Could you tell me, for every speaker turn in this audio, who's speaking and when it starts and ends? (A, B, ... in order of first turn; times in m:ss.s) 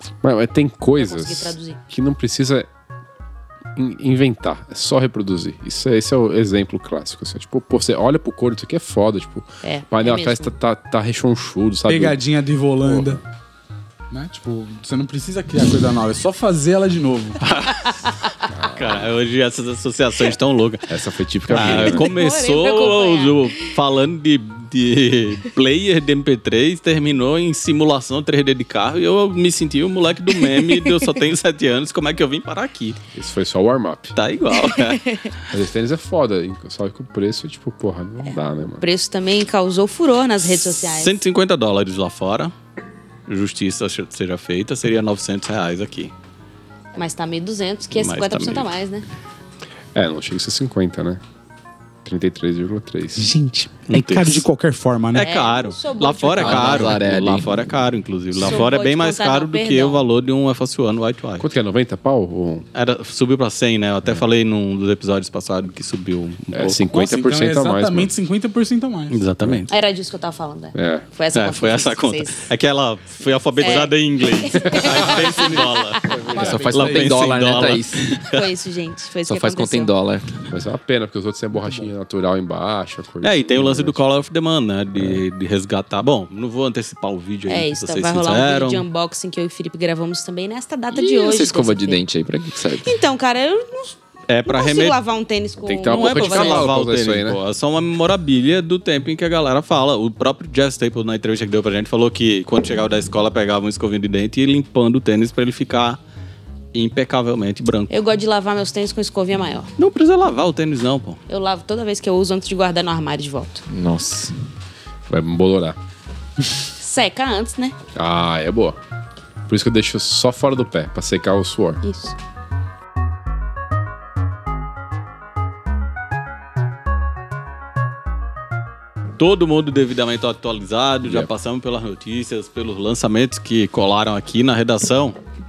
0:00.2-0:02.7 A
0:01.0-0:01.8 B
0:03.7-0:12.2 A
0:09.6-0:10.5 B
0:11.9-0:13.2 C
0:12.8-0:13.2 A
0:14.1-0:17.4 C
0:17.4-0:18.0 D
0:18.5-0:19.1 A
0:18.7-0:20.9 D
0:20.9-0:22.0 A
0:21.5-0:33.0 D
0:21.6-0:23.7 B
0:30.4-0:31.1 B
0:33.1-0:34.2 A
0:34.2-0:35.0 D
0:34.5-0:35.3 B
0:35.5-0:38.8 A
0:38.2-0:41.2 B
0:40.4-0:42.5 D
0:43.3-0:46.1 D
0:47.0-0:49.0 B
0:47.9-0:48.7 D
0:49.9-0:51.2 A
0:52.0-0:53.3 A
0:53.2-0:55.3 C
0:53.9-0:54.4 D
0:55.1-1:01.5 D
0:55.2-0:57.0 B
0:56.4-0:57.5 E
0:58.4-1:00.0 B
1:01.4-1:02.6 A
1:02.7-1:06.8 D
1:06.5-1:08.1 A
1:06.8-1:09.2 C
1:09.1-1:09.7 D
1:09.7-1:12.5 B
1:10.7-1:11.0 A
1:11.3-1:18.3 D
1:13.6-1:15.7 B
1:14.9-1:17.6 C
1:16.1-1:16.6 A
1:16.3-1:18.2 E
1:18.1-1:19.9 B
1:19.2-1:20.4 E
1:20.5-1:24.0 A
1:21.6-1:21.9 C
1:23.2-1:28.8 D
1:25.0-1:25.2 A
1:27.5-1:32.0 B
1:30.9-1:32.9 E
1:32.8-1:36.7 B
1:34.3-1:35.0 D
1:35.6-1:37.4 A
1:35.9-1:46.0 D
1:46.7-1:47.9 D
1:47.9-1:49.7 B
1:49.8-1:51.2 D
1:51.3-1:53.6 B
1:53.7-1:54.3 E
1:55.1-1:55.8 A
1:56.8-1:57.7 B
1:57.9-1:58.8 A
1:59.5-2:01.8 A
2:01.8-2:02.1 B
2:09.2-2:15.2 D
2:11.0-2:11.3 A